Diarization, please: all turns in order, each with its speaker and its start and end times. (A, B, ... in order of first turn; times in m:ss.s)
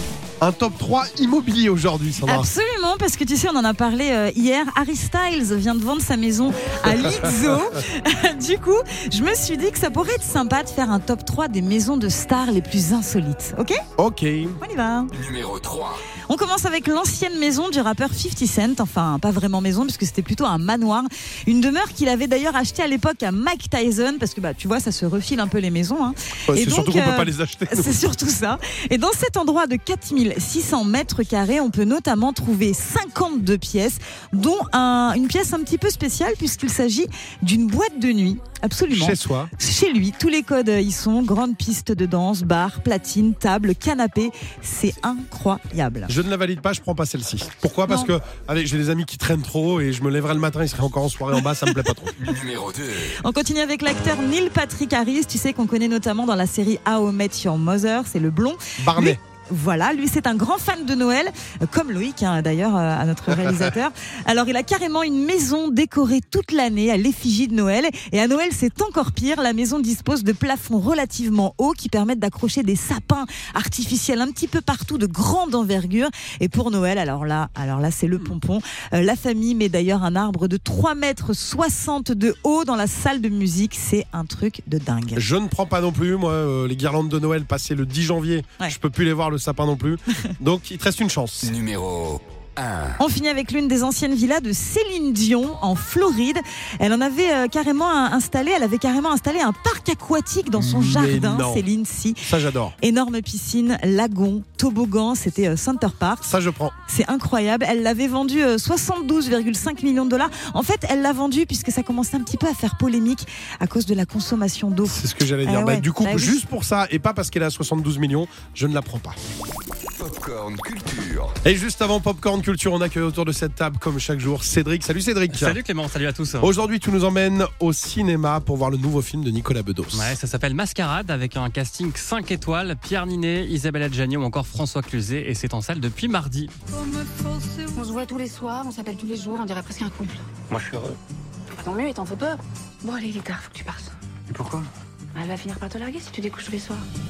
0:00.4-0:02.5 A
0:02.2-0:13.8 B
0:06.8-0:07.3 A
0:14.0-0:14.6 A
0:14.6-0:15.1 B
0:15.1-0:16.0 C
0:16.3-0:46.1 B
0:26.5-0:28.0 A
0:38.9-0:39.5 A
0:46.1-0:52.1 A
0:52.2-0:53.2 C
0:53.2-1:25.2 B
0:58.8-0:59.2 A
1:03.4-1:03.7 A
1:25.2-1:31.5 A
1:31.4-1:33.0 C
1:33.0-1:42.2 B
1:40.5-1:41.6 A
1:42.2-1:42.7 A
1:42.8-1:46.3 B
1:46.2-1:46.8 A
1:46.9-1:56.4 B
1:54.8-1:59.2 A
2:00.0-2:01.4 C
2:01.4-2:05.6 A
2:05.3-2:06.5 D
2:06.4-2:10.2 A
2:09.9-2:16.5 D
2:16.7-2:20.2 E
2:21.5-2:23.9 E
2:25.1-2:26.8 E